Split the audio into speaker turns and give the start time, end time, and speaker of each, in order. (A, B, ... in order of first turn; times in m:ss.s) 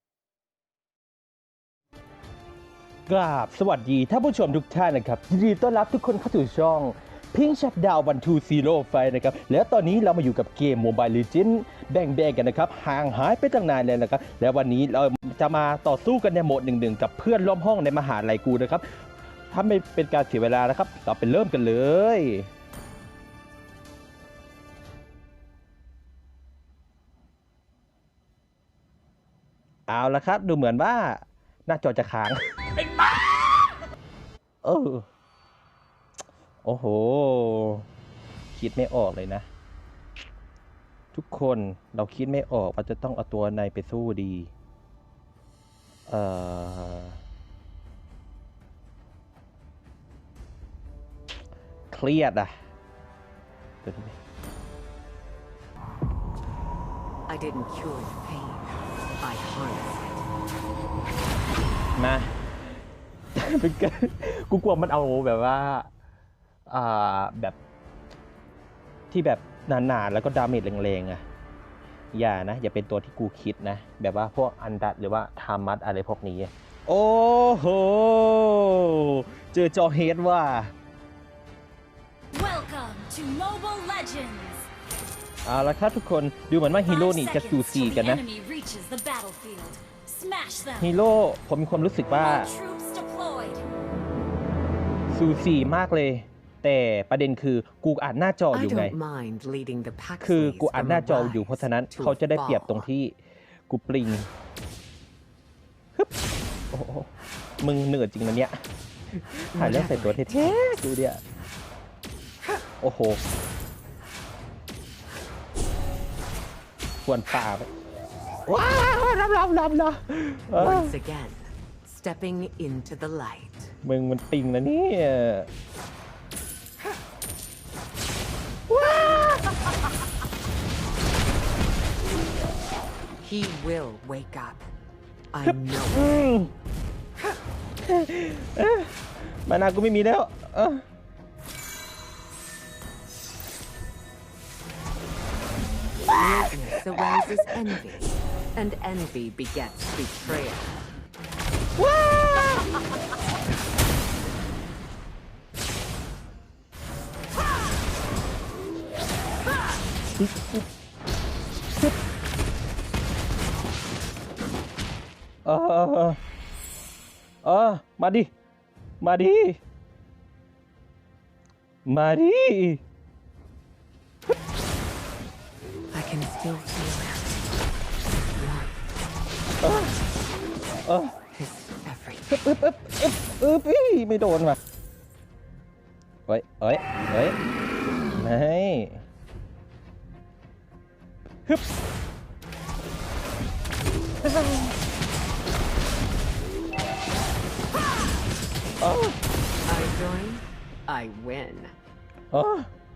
0:03.1-0:18.8 A
0:19.5-0:22.5 A
0:29.9-0:32.4 A
0:34.6-0:35.1 A
0:36.6-0:37.9 A
0:38.5-0:39.5 A
0:41.1-0:44.5 A
0:46.1-0:47.2 A
0:51.9-0:52.5 A
0:53.8-0:54.2 A
0:57.3-1:00.3 B
1:02.0-1:02.3 A
1:03.4-1:05.9 A
1:06.7-1:07.6 A
1:09.1-1:11.2 A
1:12.1-1:20.7 A
1:22.3-1:24.7 C
1:25.4-1:28.2 A
1:26.8-1:30.9 C
1:30.8-1:32.5 A
1:32.1-1:33.6 C
1:35.1-1:39.0 A
1:38.5-1:42.9 B
1:40.2-1:43.2 A
1:43.7-1:44.3 A
1:46.7-1:47.1 A
1:47.6-1:48.6 A
1:49.3-1:51.2 A
1:49.5-1:50.6 B
1:52.8-1:53.2 A
1:57.1-1:57.7 A
1:58.5-2:00.9 A
2:00.5-2:03.8 B
2:03.8-2:05.5 A
2:08.7-2:09.7 A
2:13.2-2:14.7 B
2:15.3-2:16.4 B
2:15.9-2:16.5 A
2:17.8-2:20.8 A
2:26.1-2:30.9 B
2:31.8-2:32.8 A
2:40.2-2:40.7 A
2:45.5-2:46.2 A
2:47.4-2:48.3 A
2:49.0-2:49.6 A
2:51.9-2:52.8 A
2:55.9-2:57.6 B
2:58.3-2:59.0 B
2:59.6-3:00.0 A
3:00.9-3:01.1 A
3:01.3-3:02.4 B
3:02.3-3:04.6 A
3:06.3-3:07.4 A
3:08.2-3:09.0 A
3:14.2-3:14.8 A
3:18.8-3:19.2 A
3:19.7-3:21.8 B
3:22.3-3:22.7 A